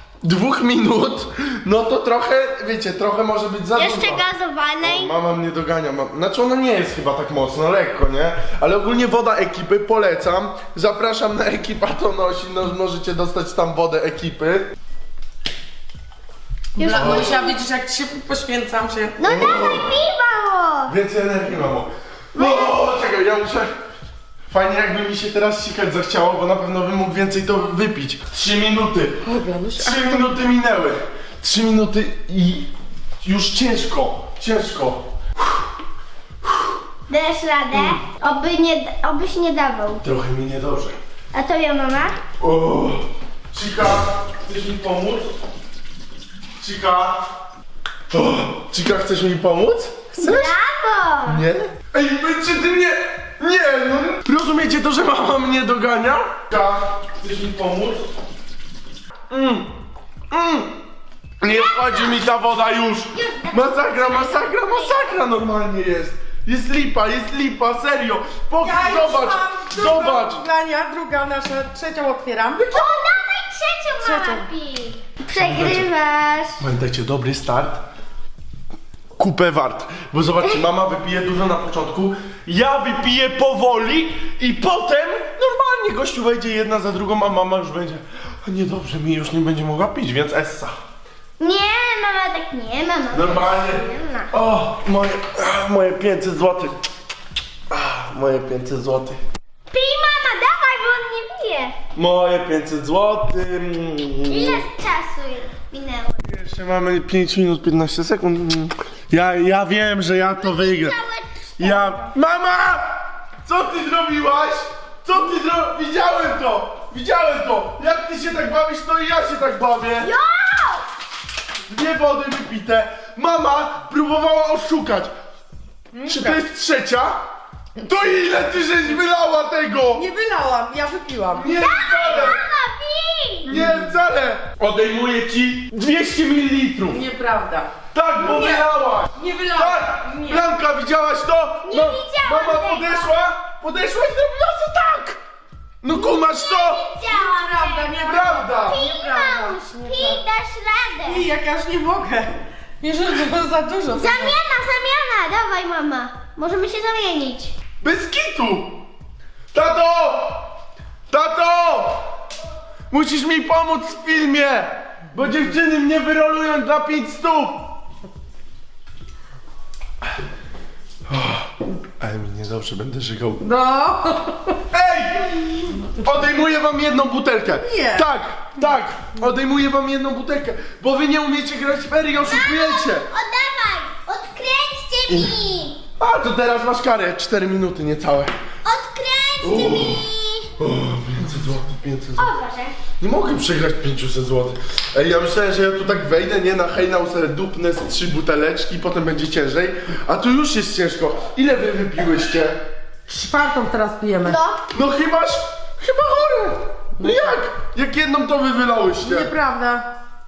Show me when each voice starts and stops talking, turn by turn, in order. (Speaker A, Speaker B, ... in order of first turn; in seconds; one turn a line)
Speaker A: 0.2-4.2
Speaker B: 3.8-5.1
Speaker A: 4.8-14.7
Speaker B: 16.8-17.6
Speaker C: 16.8-19.2
Speaker A: 16.9-17.3
Speaker B: 19.2-20.9
Speaker A: 19.2-20.0
Speaker A: 20.9-23.7
Speaker B: 22.3-22.8
Speaker A: 24.5-32.7
Speaker C: 29.2-30.3
Speaker A: 33.2-35.0
Speaker B: 37.1-40.0
Speaker A: 40.0-41.0
Speaker B: 41.3-42.2
Speaker A: 42.4-45.3
Speaker A: 46.6-47.2
Speaker A: 48.1-50.5
Speaker B: 50.2-51.4
Speaker A: 51.3-58.1
Speaker A: 59.3-59.7
Speaker A: 60.3-60.8
Speaker A: 61.4-70.5
Speaker B: 61.5-62.2
Speaker B: 63.1-65.2
Speaker C: 68.6-72.6
Speaker A: 72.6-73.0
Speaker B: 72.7-76.6
Speaker C: 74.0-74.5
Speaker A: 75.3-75.9
Speaker A: 76.6-77.8
Speaker A: 79.2-90.8
Speaker B: 91.4-94.3
Speaker A: 93.1-96.7
Speaker A: 97.7-99.2
Speaker B: 99.7-101.8
Speaker A: 102.0-104.6
Speaker B: 104.3-106.2
Speaker A: 106.2-111.0
Speaker B: 110.3-112.2
Speaker A: 111.6-120.1
Speaker B: 120.0-120.9
Speaker A: 121.7-125.1
Speaker C: 125.9-126.4
Speaker A: 126.1-127.2
Speaker A: 127.8-130.1
Speaker C: 129.9-131.5
Speaker A: 131.3-132.4
Speaker B: 131.6-133.5
Speaker A: 133.4-137.0
Speaker C: 133.5-133.9
Speaker C: 136.9-140.5
Speaker A: 137.9-145.2
Speaker B: 141.7-143.1
Speaker A: 145.8-146.8
Speaker B: 145.9-151.3
Speaker C: 147.1-150.2
Speaker A: 148.1-148.8
Speaker C: 151.1-154.4
Speaker B: 153.9-157.5
Speaker A: 157.8-158.8
Speaker A: 159.5-160.5
Speaker A: 161.1-162.1
Speaker A: 162.9-167.6
Speaker A: 171.1-173.5
Speaker C: 173.4-174.6
Speaker A: 174.7-183.1
Speaker C: 177.6-178.1
Speaker B: 182.2-185.8
Speaker A: 185.1-185.4
Speaker A: 186.0-188.3
Speaker B: 188.7-190.5
Speaker A: 189.4-190.1
Speaker A: 190.6-192.3
Speaker B: 192.2-192.8
Speaker A: 193.0-202.6
Speaker C: 203.1-204.4
Speaker B: 204.2-204.7
Speaker A: 204.7-209.3
Speaker C: 207.0-207.4
Speaker C: 209.0-209.9